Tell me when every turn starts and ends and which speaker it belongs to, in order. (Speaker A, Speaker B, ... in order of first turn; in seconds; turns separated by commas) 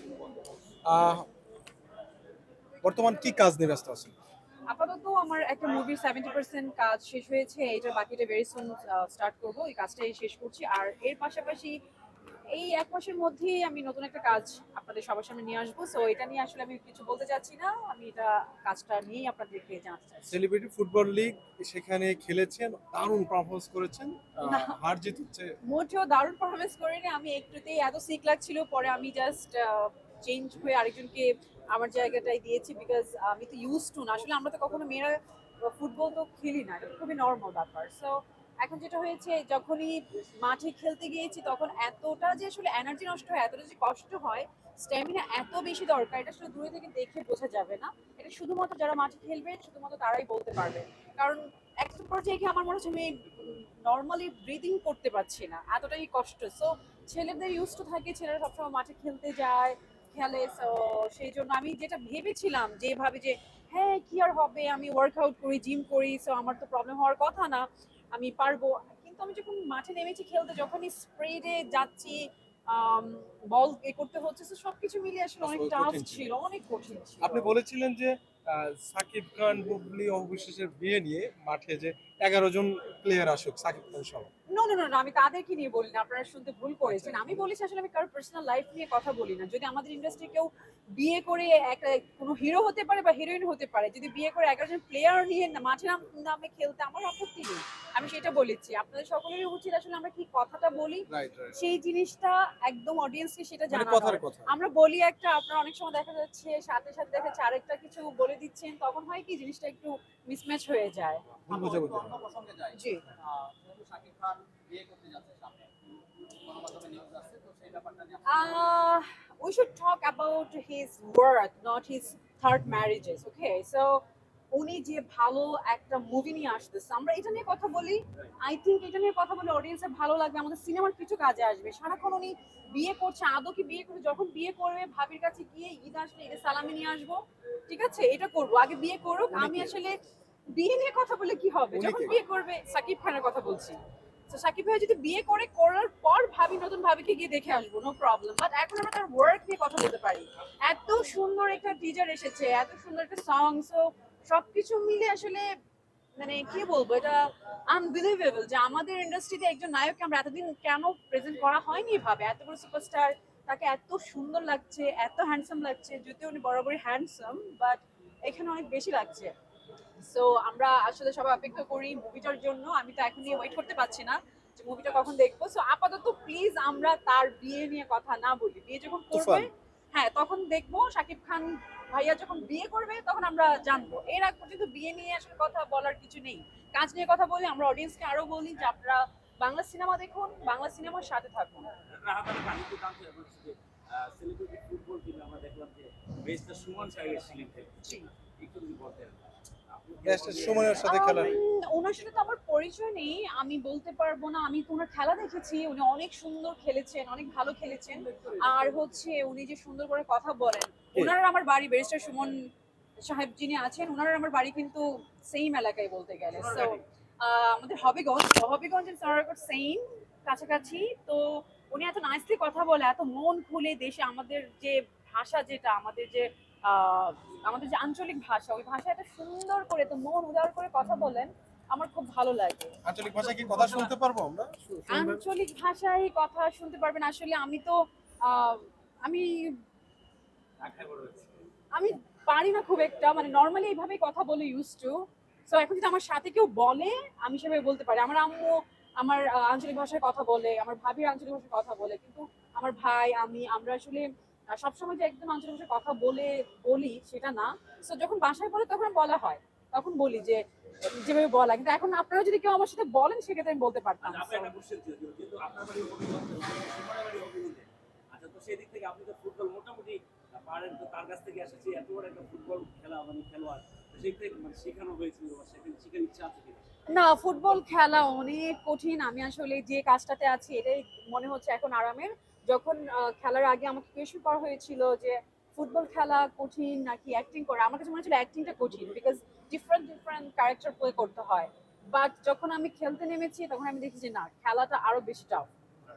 Speaker A: 0.8-1.3, Speaker A: 2.8-4.1, Speaker B: 4.7-11.8, Speaker B: 12.5-20.4, Speaker A: 20.3-25.5, Speaker B: 24.4-24.8, Speaker B: 25.6-77.5, Speaker A: 75.4-76.3, Speaker A: 77.2-84.3, Speaker B: 84.5-111.2, Speaker A: 86.8-87.5, Speaker A: 101.1-101.5, Speaker A: 103.7-104.5, Speaker A: 111.4-112.2, Speaker C: 111.7-115.7, Speaker B: 112.7-113.1, Speaker D: 115.0-115.6, Speaker C: 116.5-118.6, Speaker D: 116.8-117.1, Speaker B: 118.3-124.0, Speaker B: 124.5-140.0, Speaker A: 139.3-139.8, Speaker B: 140.5-143.8, Speaker A: 141.7-142.2, Speaker B: 144.3-155.5, Speaker B: 156.2-169.3, Speaker B: 170.0-191.7, Speaker A: 179.1-179.5, Speaker D: 191.9-201.4, Speaker A: 200.0-201.4, Speaker B: 200.8-212.3, Speaker B: 213.0-233.9, Speaker D: 216.3-216.8, Speaker A: 232.8-235.2, Speaker B: 234.9-239.6, Speaker D: 240.6-241.4, Speaker B: 241.7-264.5, Speaker D: 264.0-276.7, Speaker B: 276.9-295.5